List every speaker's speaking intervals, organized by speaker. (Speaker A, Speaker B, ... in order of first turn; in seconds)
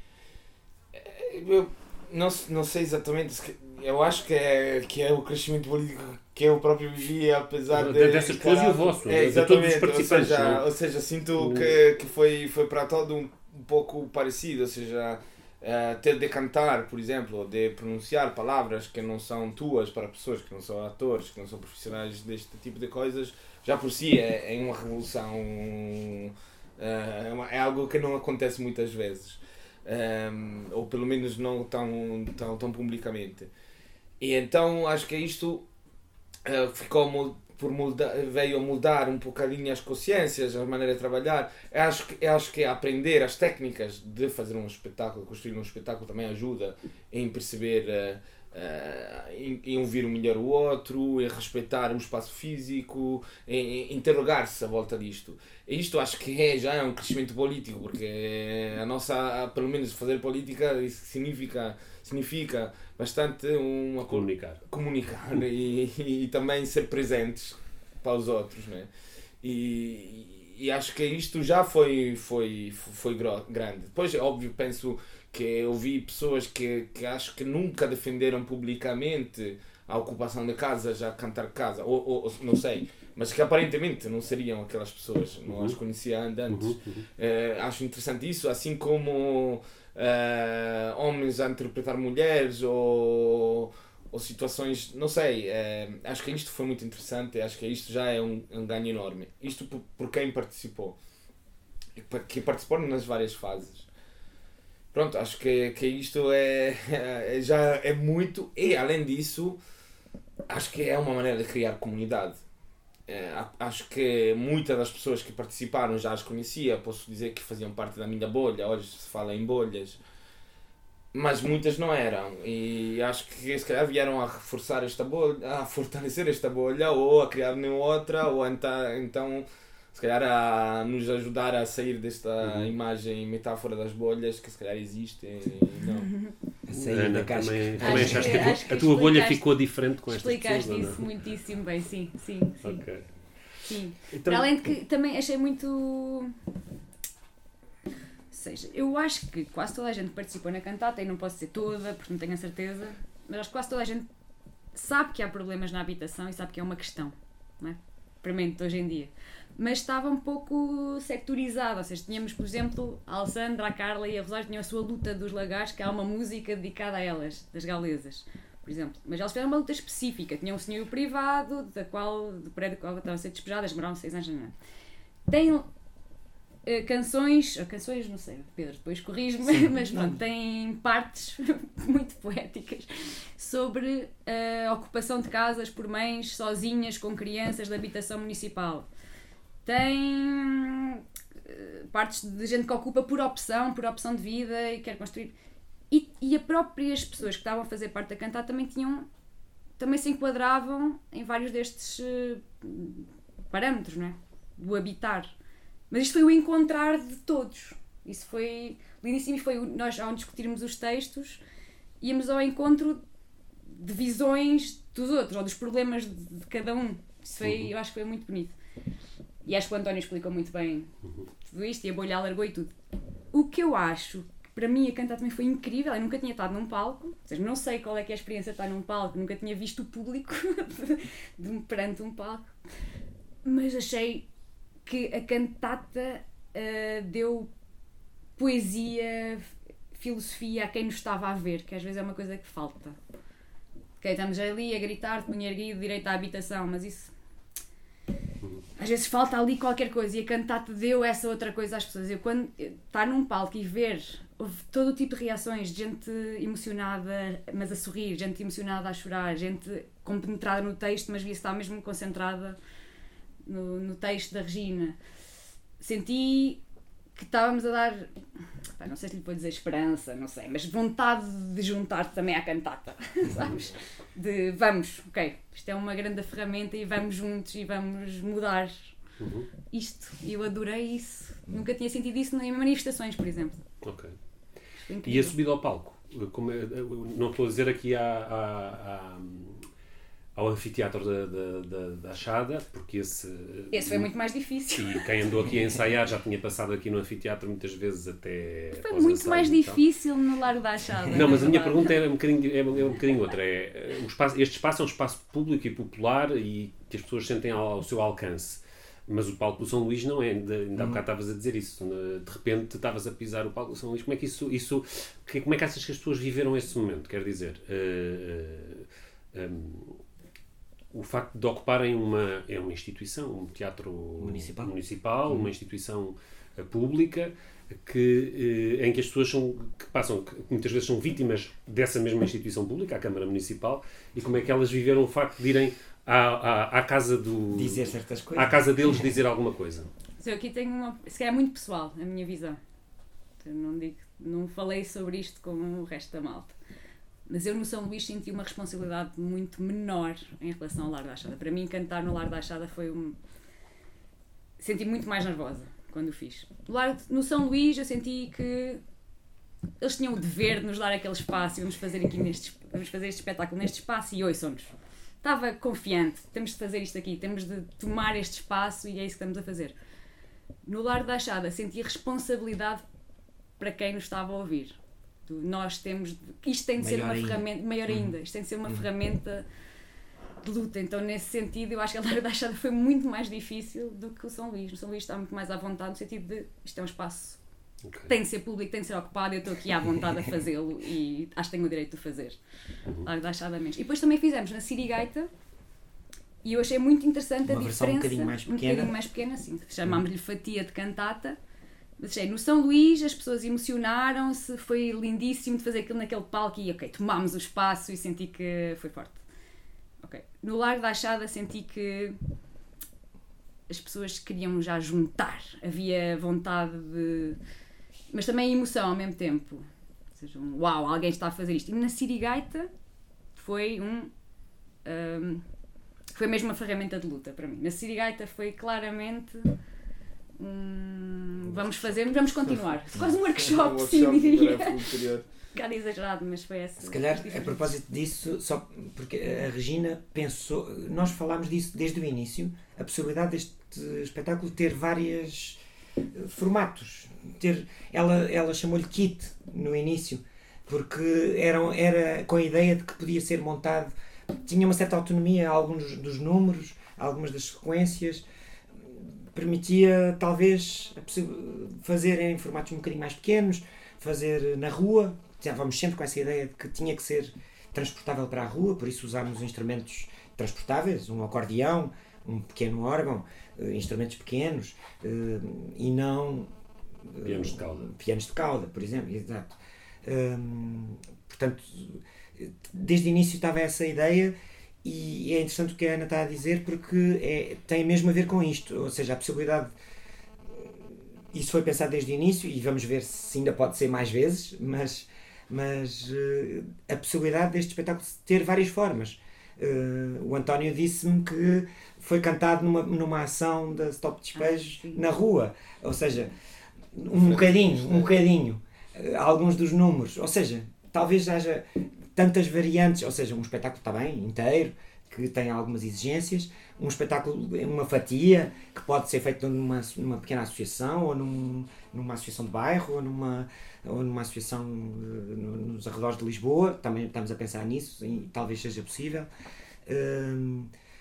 Speaker A: 0.9-33.5, 34.2-35.7, 36.5-68.9, 69.4-101.0, 102.0-103.9, 104.9-109.6, 110.5-112.4, 113.1-120.0, 121.1-136.1, 432.8-435.3, 507.1-508.2
Speaker B: 7.7-10.6, 11.4-11.8, 64.1-64.6, 85.5-85.8, 86.5-87.1, 132.4-132.7, 136.7-141.1, 142.6-143.1, 144.1-144.6, 217.4-217.7, 279.2-279.5, 283.8-284.1, 285.1-289.7, 290.4-294.1, 294.8-299.8, 301.1-320.0, 320.9-339.9, 387.9-388.1, 477.2-477.9
Speaker C: 136.0-136.3, 137.8-139.5, 140.1-142.8, 143.7-146.3, 148.3-154.1, 154.7-174.5, 175.3-175.7, 176.7-182.9, 183.4-188.9, 189.7-195.3, 195.9-199.1, 199.8-205.3, 205.9-211.4, 212.0-213.0, 213.7-218.6, 219.4-220.9, 221.5-222.7, 223.3-232.5, 233.4-234.3, 234.8-237.5, 238.4-243.0, 244.0-247.1, 248.8-262.6, 263.5-265.0, 265.8-266.6, 267.2-268.1, 268.8-278.9, 279.7-283.6, 284.8-285.4, 293.7-295.1, 298.8-302.0, 340.2-342.6, 343.4-346.6, 347.3-353.2, 354.6-358.8, 359.8-369.7, 370.6-372.8, 373.6-379.5, 380.4-387.4, 388.1-392.4, 393.0-395.3, 396.4-401.4, 402.0-409.2, 410.0-412.2, 413.7-417.4, 418.1-422.7, 423.4-424.1, 424.9-425.4, 426.1-429.5, 430.4-434.8, 435.5-437.7, 504.3-505.1
Speaker D: 136.7-138.6, 179.8-180.1, 310.8-311.0, 324.2-324.7, 337.5-339.1, 376.8-378.1, 397.5-398.9, 436.8-445.6, 446.1-453.9, 454.4-458.3, 458.8-476.5, 477.1-489.7, 490.5-506.3, 506.9-529.3, 529.9-530.7